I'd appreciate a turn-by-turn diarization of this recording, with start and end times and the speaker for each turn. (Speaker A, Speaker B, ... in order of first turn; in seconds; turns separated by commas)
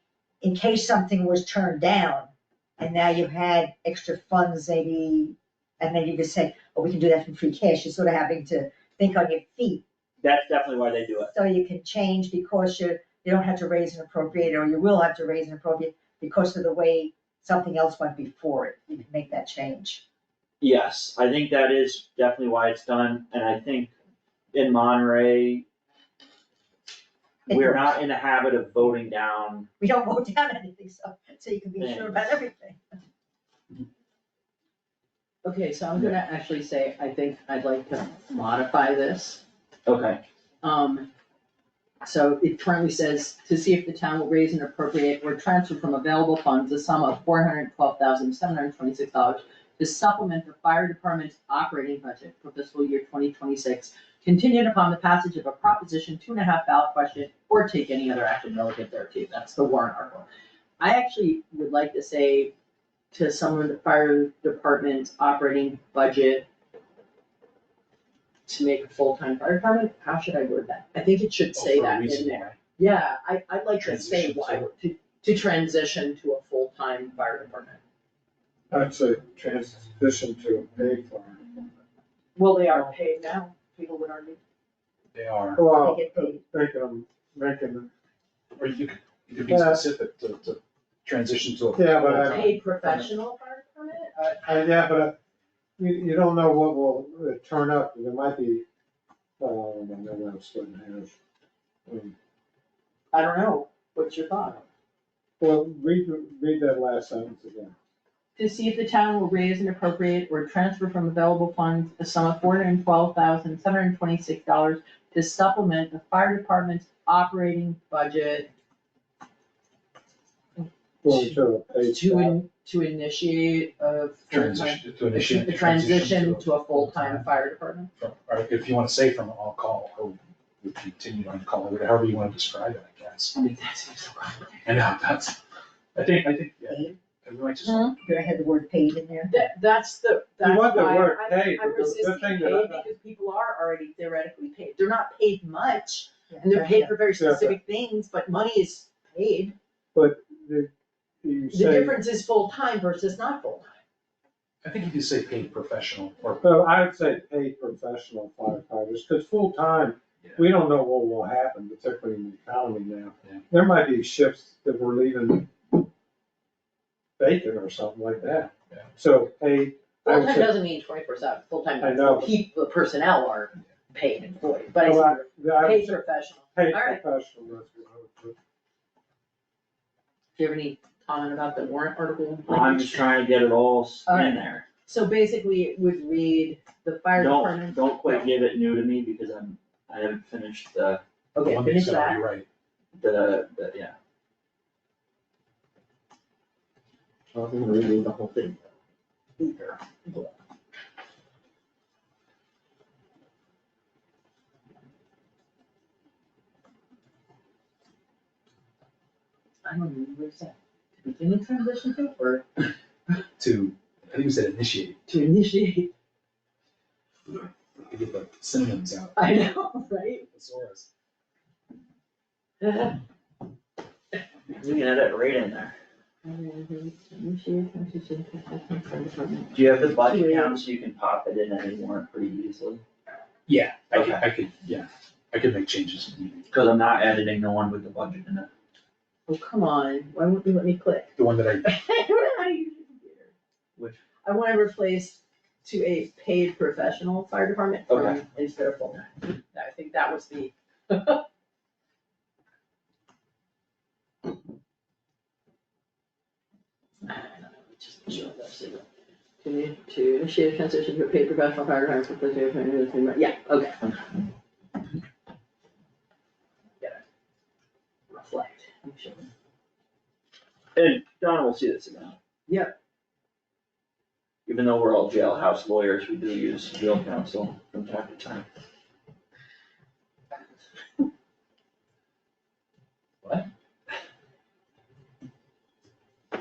Speaker A: 0.4-9.8, Speaker B: 10.2-11.3, Speaker A: 11.3-20.0, Speaker B: 20.6-23.9, Speaker B: 24.5-25.6, Speaker A: 27.5-27.9, Speaker B: 27.5-29.7, Speaker A: 29.8-32.8, Speaker B: 31.8-32.4, Speaker C: 35.4-39.4, Speaker B: 39.9-40.2, Speaker C: 40.6-41.1, Speaker C: 42.0-60.3, Speaker C: 60.8-62.5, Speaker C: 63.1-66.5, Speaker C: 68.5-77.8, Speaker D: 71.5-72.6, Speaker D: 73.8-74.7, Speaker E: 78.7-81.7, Speaker C: 82.3-84.4, Speaker D: 85.1-85.6, Speaker E: 85.6-87.9, Speaker A: 85.8-86.4, Speaker D: 88.6-93.0, Speaker E: 89.5-89.8, Speaker E: 91.8-92.5, Speaker C: 92.2-94.5, Speaker E: 94.4-95.2, Speaker E: 95.8-98.6, Speaker E: 99.4-101.1, Speaker E: 101.9-102.1, Speaker C: 103.1-104.6, Speaker E: 105.4-107.7, Speaker C: 108.3-118.5, Speaker C: 120.6-127.9, Speaker E: 121.0-122.4, Speaker D: 124.3-127.3, Speaker D: 128.0-133.3, Speaker C: 133.3-134.6, Speaker D: 134.6-135.4, Speaker D: 135.9-138.0, Speaker A: 136.7-136.9, Speaker C: 137.6-137.9, Speaker A: 138.0-139.4, Speaker C: 139.3-149.6, Speaker E: 140.4-142.8, Speaker A: 146.3-147.0, Speaker E: 147.2-147.6, Speaker E: 149.9-150.7, Speaker E: 151.2-152.0, Speaker C: 151.5-153.8, Speaker D: 154.6-156.4, Speaker E: 156.4-165.8, Speaker E: 167.2-170.5, Speaker C: 170.0-177.0, Speaker E: 171.8-172.3, Speaker E: 174.8-176.0, Speaker E: 176.5-178.3, Speaker C: 180.3-183.1, Speaker B: 182.5-184.7, Speaker C: 184.1-188.4, Speaker B: 187.2-191.0, Speaker C: 191.3-192.2, Speaker D: 191.4-192.4, Speaker B: 192.9-193.9, Speaker C: 197.3-198.6, Speaker C: 199.4-200.3, Speaker C: 209.6-212.6, Speaker D: 213.4-215.0, Speaker C: 215.1-215.9, Speaker D: 217.8-219.2, Speaker C: 219.2-220.3, Speaker D: 220.3-220.9, Speaker C: 222.6-223.0, Speaker B: 224.5-225.7, Speaker C: 226.2-230.7, Speaker B: 229.5-232.8, Speaker D: 233.5-236.5, Speaker B: 233.9-234.2, Speaker B: 236.5-238.5, Speaker C: 239.3-243.3, Speaker D: 241.2-241.7, Speaker C: 244.2-251.2, Speaker B: 247.9-248.2, Speaker C: 257.0-258.9, Speaker C: 259.4-263.8, Speaker C: 268.1-269.3, Speaker B: 270.7-272.2, Speaker C: 272.5-272.8, Speaker B: 274.4-278.4